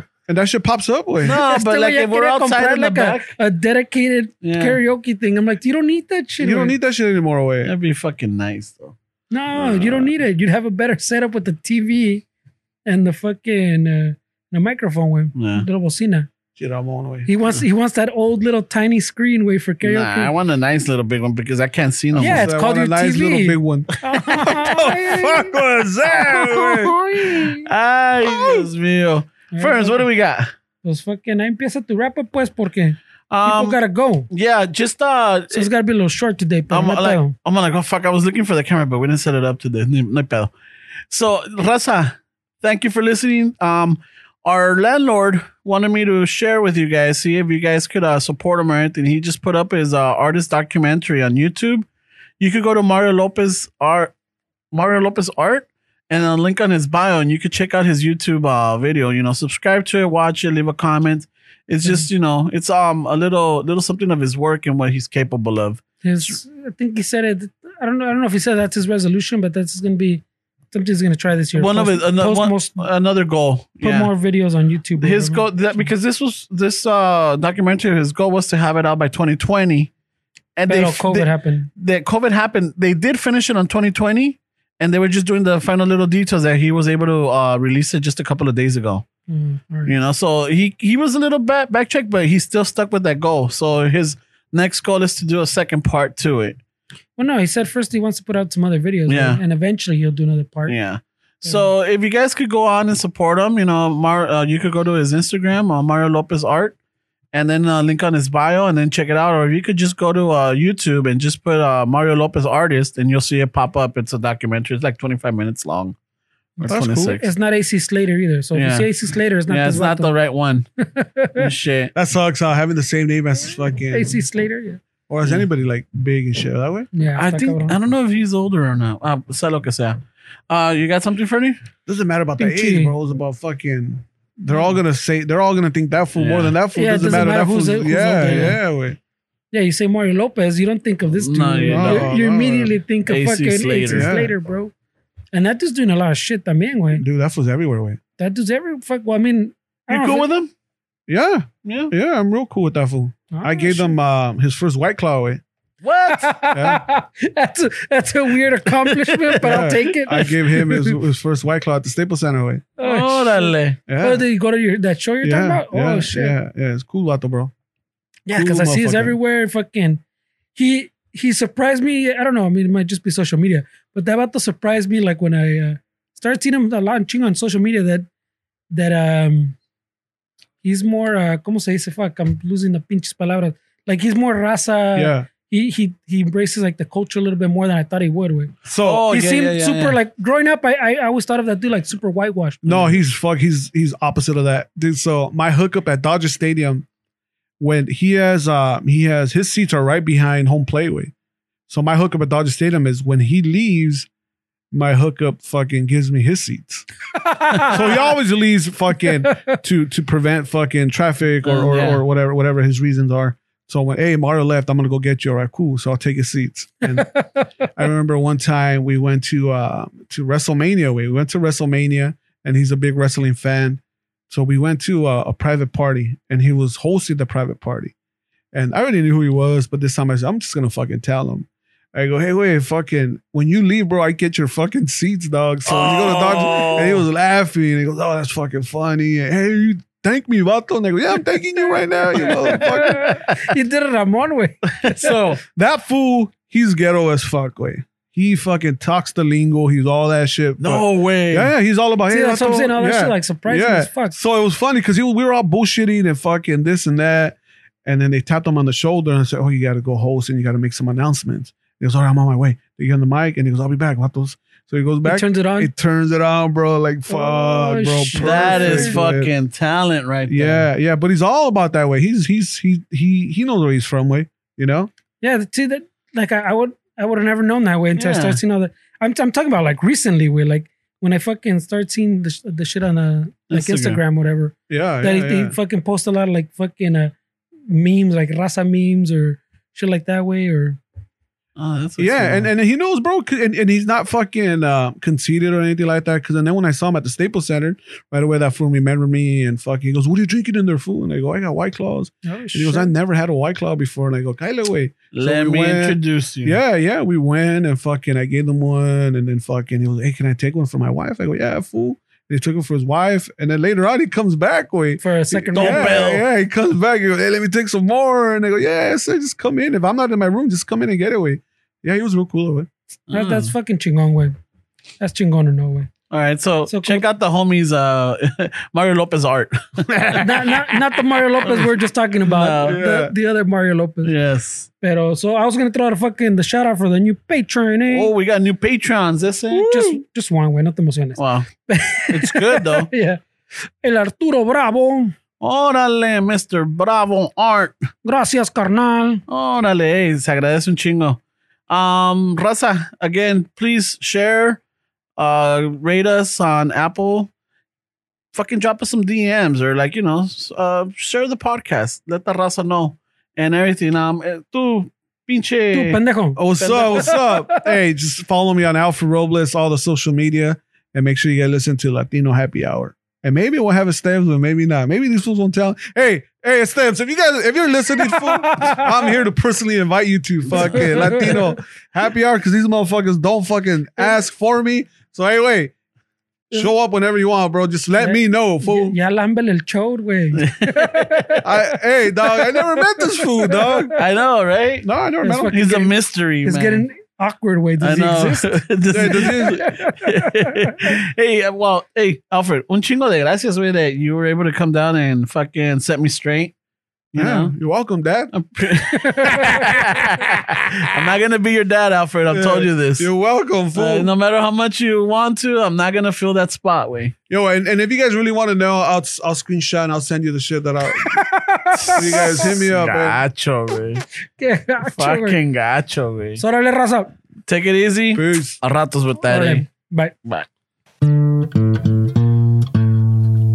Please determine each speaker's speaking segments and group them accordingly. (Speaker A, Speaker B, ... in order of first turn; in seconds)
Speaker A: 0.3-1.4, 6.4-7.7, 9.6-10.1, 16.6-17.3, 22.1-27.2, 28.2-28.7, 116.6-117.2, 121.9-124.2, 125.1-126.9, 131.9-139.0, 141.7-142.7, 143.9-144.3, 147.0-148.0, 151.1-155.4, 156.5-156.8, 159.4-162.7, 163.9-164.2, 165.2-167.5, 168.3-169.2, 184.9-185.3, 188.7-189.1, 192.6-196.9, 197.6-201.1, 201.7-204.1, 204.7-206.9, 207.6-227.9, 228.5-243.2, 245.5-269.3, 270.3-274.9, 284.7-285.6, 292.0-322.7, 329.9-330.4, 332.6-333.1, 366.4-385.7, 386.5-389.0, 391.4-394.0, 394.8-395.6, 398.9-399.6, 407.2-408.3, 412.3-414.1, 417.3-421.2, 421.9-423.2, 428.1-428.6
Speaker B: 1.2-3.4, 4.4-4.8, 7.6-8.9, 15.3-15.7, 19.8-22.5, 26.1-30.5, 33.3-33.8, 34.3-35.7, 36.7-40.5, 41.1-51.9, 52.4-54.1, 54.7-66.4, 71.5-74.1, 75.0-79.9, 80.6-89.0, 89.9-96.6, 99.1-99.4, 100.7-106.8, 107.3-116.0, 116.6-117.3, 118.5-118.9, 119.5-120.7, 121.4-121.9, 127.2-130.0, 130.5-131.6, 136.2-136.6, 138.2-138.6, 141.1-142.1, 143.1-144.1, 149.9-150.5, 151.7-151.9, 155.8-156.3, 158.8-160.2, 162.8-163.8, 188.8-190.0, 211.4-212.0, 235.7-237.1, 242.3-243.4, 244.8-245.4, 250.6-251.5, 268.1-270.7, 278.0-278.4, 283.5-284.0, 291.6-292.5, 305.1-306.6, 315.6-316.2, 323.1-323.5, 326.1-330.5, 331.4-331.7, 332.2-332.8, 334.0-334.7, 337.9-339.7, 341.2-341.5, 342.1-342.9, 345.4-347.7, 349.3-354.6, 355.2-357.3, 358.3-366.0, 366.6-367.2, 380.5-381.4, 390.4-391.4, 393.9-394.9, 395.5-396.9, 397.8-406.5, 407.1-407.5, 408.3-413.1, 413.7-417.1, 421.7-424.1, 424.9-426.4, 427.5-429.6
Speaker C: 1.3-6.8, 9.3-12.2, 12.9-16.3, 17.3-20.3, 22.2-25.6, 27.2-27.7, 29.5-30.0, 30.8-34.3, 35.5-37.3, 66.0-72.8, 73.8-75.9, 80.7-81.7, 89.3-89.9, 97.2-100.8, 116.6-120.1, 120.8-121.5, 123.9-124.8, 126.9-127.8, 132.4-132.9, 136.7-138.6, 139.5-144.7, 145.3-147.0, 148.2-150.3, 153.3-154.0, 156.1-161.0, 162.8-166.4, 168.3-170.0, 170.6-178.1, 178.7-179.6, 180.6-188.5, 189.1-192.7, 207.2-207.9, 209.3-209.6, 216.9-217.5, 242.1-245.2, 252.1-254.2, 265.1-265.7, 267.1-269.0, 275.2-287.1, 287.7-290.8, 302.2-302.9, 315.0-316.0, 323.1-324.4, 325.0-325.9, 326.7-327.1, 330.2-334.1, 334.8-338.1, 339.6-345.1, 348.1-349.2, 365.7-367.7, 378.0-378.9, 380.6-381.6, 388.0-391.4, 393.2-393.9, 395.2-400.9, 408.9-409.7, 421.0-422.5, 424.4-425.4, 426.4-427.1, 429.2-430.1